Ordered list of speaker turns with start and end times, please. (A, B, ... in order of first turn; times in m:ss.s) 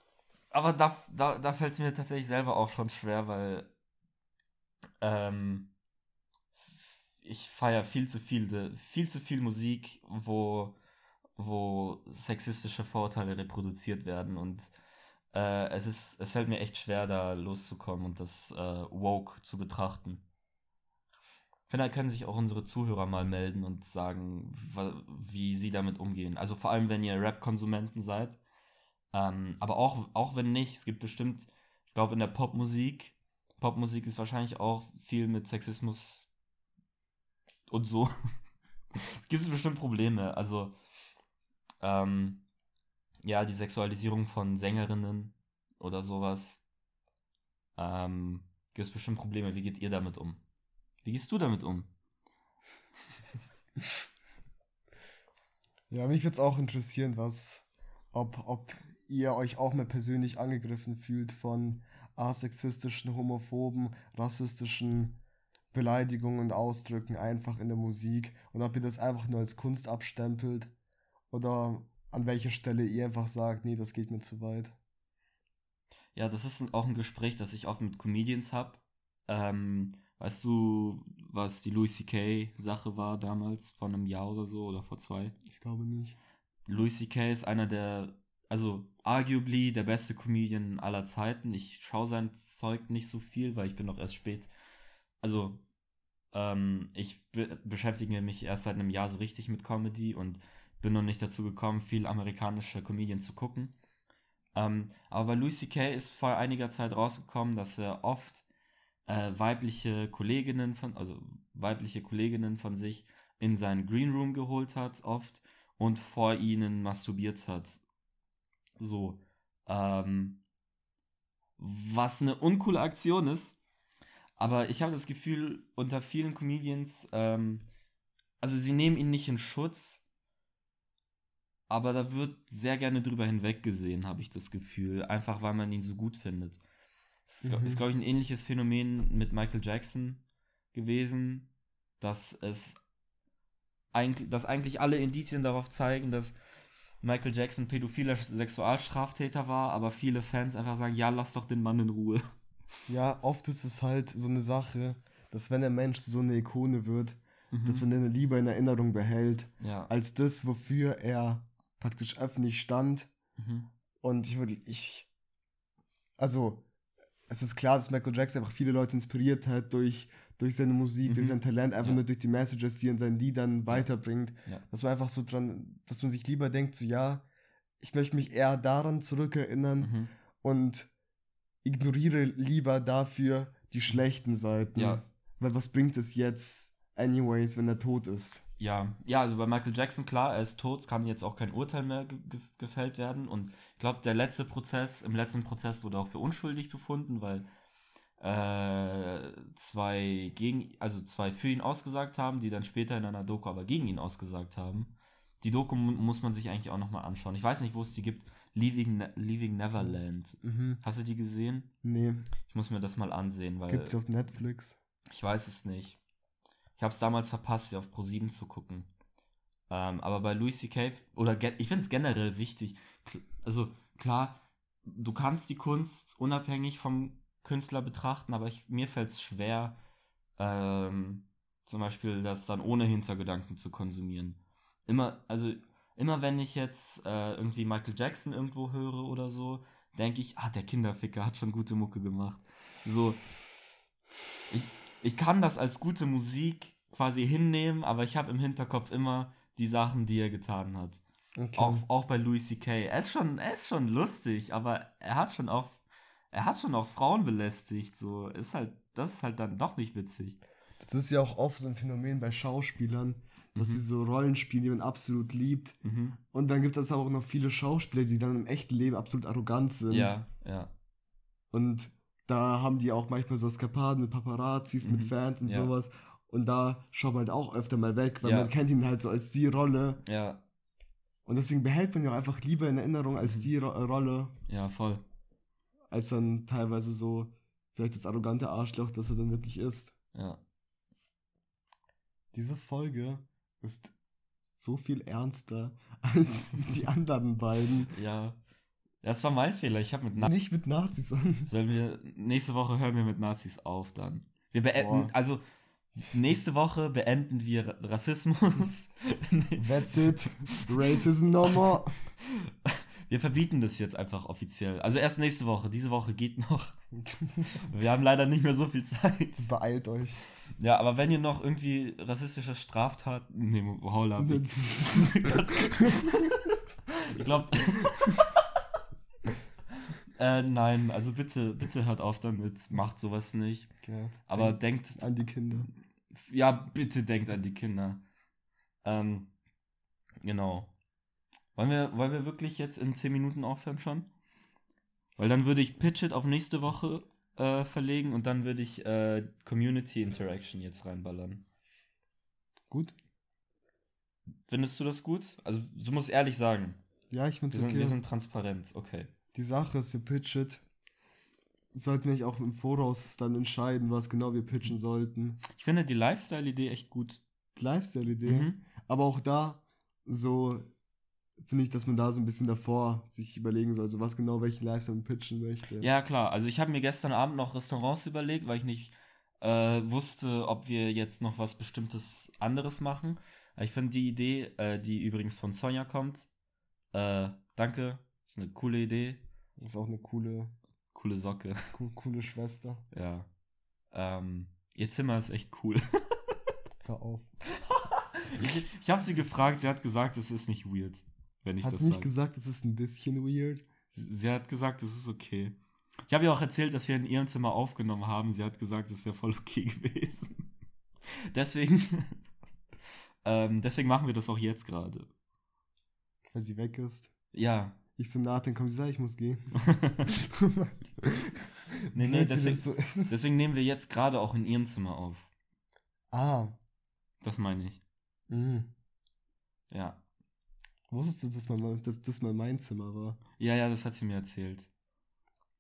0:00.5-0:03.7 A
0:05.0-0:05.7 A
0:07.2-0:10.8 A
0:11.4-0:14.7 A
0:15.3-0:20.2 A
0:21.7-0:28.4 A
0:29.1-0:36.3 A
0:37.7-0:38.1 A
0:38.9-0:40.7 A
0:41.8-0:42.4 A
0:43.2-0:46.6 A
0:47.8-0:50.4 A
0:51.0-0:51.9 A
0:55.9-1:05.2 B
1:05.7-1:10.7 B
1:11.3-1:14.8 B
1:16.1-1:25.4 A
1:25.5-1:26.2 B
1:26.6-1:34.5 A
1:35.2-1:35.6 A
1:36.3-1:43.8 A
1:44.5-1:48.4 A
1:49.1-1:57.8 A
1:58.8-2:00.4 A
2:01.6-2:03.6 A
2:04.4-2:07.6 A
2:08.4-2:10.0 A
2:11.7-2:16.6 A
2:17.2-2:20.2 A
2:17.4-2:17.8 B
2:20.7-2:21.5 A
2:22.0-2:22.8 A
2:23.9-2:26.4 A
2:27.0-2:32.3 A
2:32.9-2:43.1 B
2:37.5-2:37.8 A
2:39.6-2:39.9 A
2:43.4-2:43.7 A
2:44.0-2:45.1 B
2:46.2-2:46.6 B
2:47.3-2:57.2 B
2:51.0-2:52.0 A
2:57.8-3:00.9 B
2:59.8-3:00.1 A
3:01.6-3:08.4 B
3:04.8-3:05.0 A
3:08.6-3:17.5 A
3:18.2-3:31.7 A
3:29.8-3:30.8 B
3:31.8-3:32.2 B
3:32.5-3:34.0 A
3:33.7-3:34.8 B
3:35.1-3:36.0 A
3:36.8-3:38.9 A
3:39.7-3:49.8 A
3:50.4-4:03.2 A
4:04.5-4:11.0 A
4:11.4-4:11.8 B
4:11.5-4:20.4 A
4:20.8-4:30.1 B
4:23.6-4:23.8 A
4:25.8-4:26.2 A
4:29.9-4:30.7 A
4:31.5-4:40.0 B
4:34.8-4:35.7 A
4:38.2-4:38.5 A
4:40.0-4:40.4 A
4:41.2-4:44.3 B
4:43.2-4:43.5 A
4:44.5-4:45.0 A
4:45.9-4:49.9 B
4:50.1-4:50.4 A
4:52.3-4:53.9 B
4:54.5-4:57.9 B
4:57.9-4:58.4 A
4:59.0-5:00.4 A
5:00.2-5:01.5 B
5:01.4-5:05.4 A
5:04.8-5:05.1 B
5:06.0-5:11.0 A
5:09.6-5:11.9 B
5:12.2-5:16.8 A
5:16.9-5:17.7 B
5:17.6-5:19.5 A
5:19.3-5:20.2 B
5:20.6-5:28.5 A
5:24.2-5:26.3 B
5:30.1-5:33.7 A
5:33.8-5:35.7 B
5:34.3-5:35.1 A
5:36.1-5:38.0 A
5:38.8-5:39.3 A
5:40.2-5:40.7 A
5:41.5-5:44.1 A
5:45.2-5:51.4 A
5:54.5-5:56.8 A
5:57.1-5:58.0 B
5:57.5-5:59.1 A
5:59.3-6:00.6 B
6:01.7-6:05.4 B
6:05.5-6:07.2 A
6:07.5-6:10.7 B
6:08.2-6:08.6 A
6:11.4-6:15.9 B
6:15.8-6:26.3 A
6:26.9-6:29.2 A
6:29.6-6:30.5 B
6:30.9-6:31.6 A
6:31.7-6:32.8 B
6:32.9-6:33.3 A
6:33.9-6:36.3 A
6:36.8-6:37.3 B
6:37.5-6:42.1 A
6:41.6-6:43.7 B
6:43.9-6:45.6 A
6:46.1-6:50.4 A
6:51.3-6:52.2 A
6:53.2-6:55.1 A
6:56.3-6:57.1 B
6:57.3-6:57.8 A
6:58.0-6:59.5 B
6:59.6-7:00.1 A
7:00.1-7:03.2 B
7:01.9-7:05.3 A
7:06.1-7:06.6 B
7:07.2-7:07.8 A
7:08.3-7:08.7 B
7:09.7-7:10.0 A
7:10.9-7:13.2 B
7:13.4-7:14.7 A